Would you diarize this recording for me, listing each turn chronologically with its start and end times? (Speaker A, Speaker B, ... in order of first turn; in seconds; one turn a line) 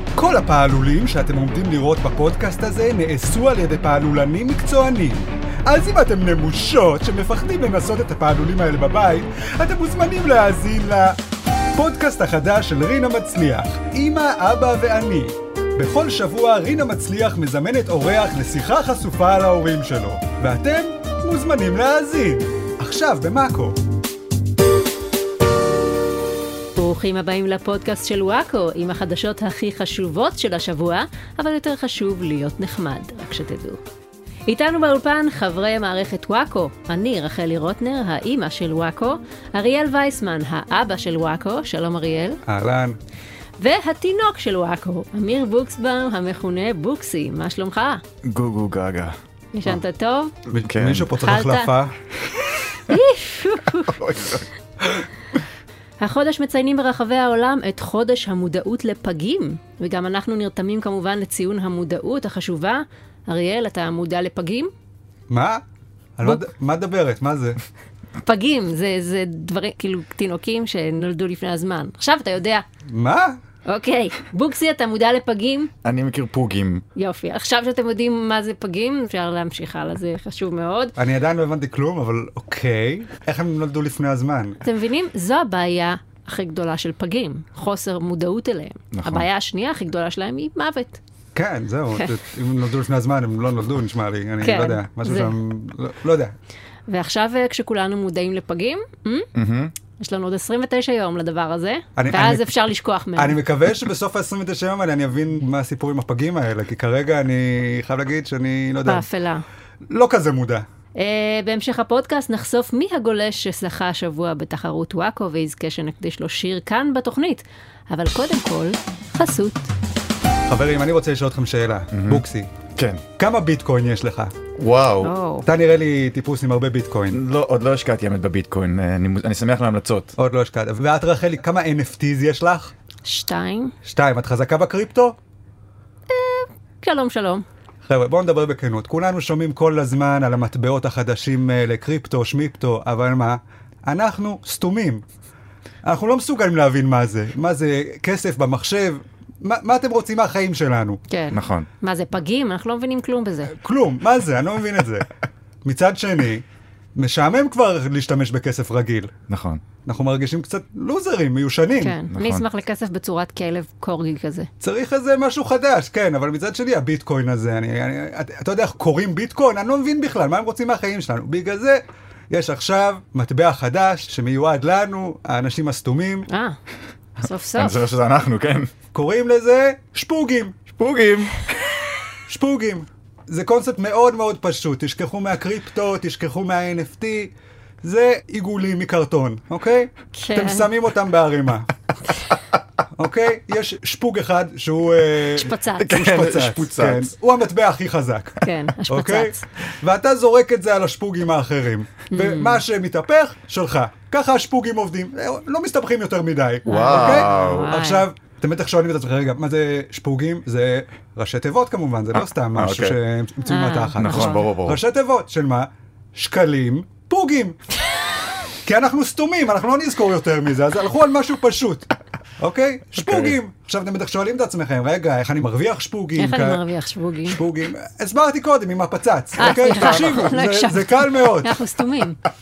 Speaker A: 0.1-11.2
Speaker A: 11.7-23.8
Speaker B: 26.8-33.8
Speaker B: 34.5-42.4
Speaker A: 42.5-43.0
Speaker B: 43.6-48.0
Speaker C: 48.2-49.1
Speaker B: 49.5-50.3
Speaker A: 50.5-51.9
Speaker C: 50.6-51.1
Speaker B: 51.2-51.7
Speaker B: 52.8-54.0
Speaker C: 53.9-54.5
Speaker B: 56.0-64.7
Speaker A: 65.3-65.6
Speaker A: 66.2-67.6
Speaker B: 68.2-72.6
Speaker A: 72.9-73.4
Speaker B: 73.7-75.7
Speaker C: 75.8-76.8
Speaker B: 76.9-80.9
Speaker A: 81.0-84.6
Speaker B: 84.6-91.0
Speaker C: 88.9-89.3
Speaker A: 91.3-96.3
Speaker B: 94.4-95.3
Speaker B: 96.9-99.3
Speaker C: 99.3-99.7
Speaker B: 100.0-103.4
Speaker A: 102.0-102.5
Speaker A: 103.2-109.0
Speaker B: 108.8-109.4
Speaker A: 109.9-110.7
Speaker B: 111.0-119.7
Speaker A: 120.5-122.5
Speaker C: 121.9-122.2
Speaker C: 122.8-123.0
Speaker A: 123.2-124.3
Speaker C: 124.6-125.1
Speaker B: 125.0-125.5
Speaker A: 125.4-127.2
Speaker C: 127.1-130.1
Speaker A: 130.2-132.7
Speaker B: 133.0-133.7
Speaker A: 133.8-135.2
Speaker B: 136.1-137.4
Speaker A: 137.8-145.0
Speaker A: 145.8-151.0
Speaker B: 151.1-153.5
Speaker C: 151.3-151.7
Speaker A: 153.5-155.1
Speaker A: 155.6-156.4
Speaker A: 156.9-159.1
Speaker C: 159.3-159.6
Speaker A: 159.8-162.0
Speaker B: 161.8-164.5
Speaker C: 162.1-162.4
Speaker A: 164.6-176.3
Speaker B: 176.3-176.6
Speaker B: 177.2-177.8
Speaker C: 177.6-178.7
Speaker A: 178.9-180.6
Speaker C: 180.8-181.7
Speaker A: 182.3-191.7
Speaker B: 190.1-190.7
Speaker A: 192.9-217.6
Speaker B: 195.3-195.9
Speaker C: 195.8-197.1
Speaker B: 198.4-199.4
Speaker B: 202.1-202.6
Speaker C: 206.7-207.7
Speaker B: 206.7-208.1
Speaker C: 212.5-213.0
Speaker B: 213.4-214.5
Speaker C: 214.0-214.8
Speaker A: 218.7-221.9
Speaker A: 222.4-226.6
Speaker C: 223.0-223.3
Speaker B: 226.2-227.4
Speaker A: 227.2-231.6
Speaker B: 229.4-232.2
Speaker C: 229.7-230.1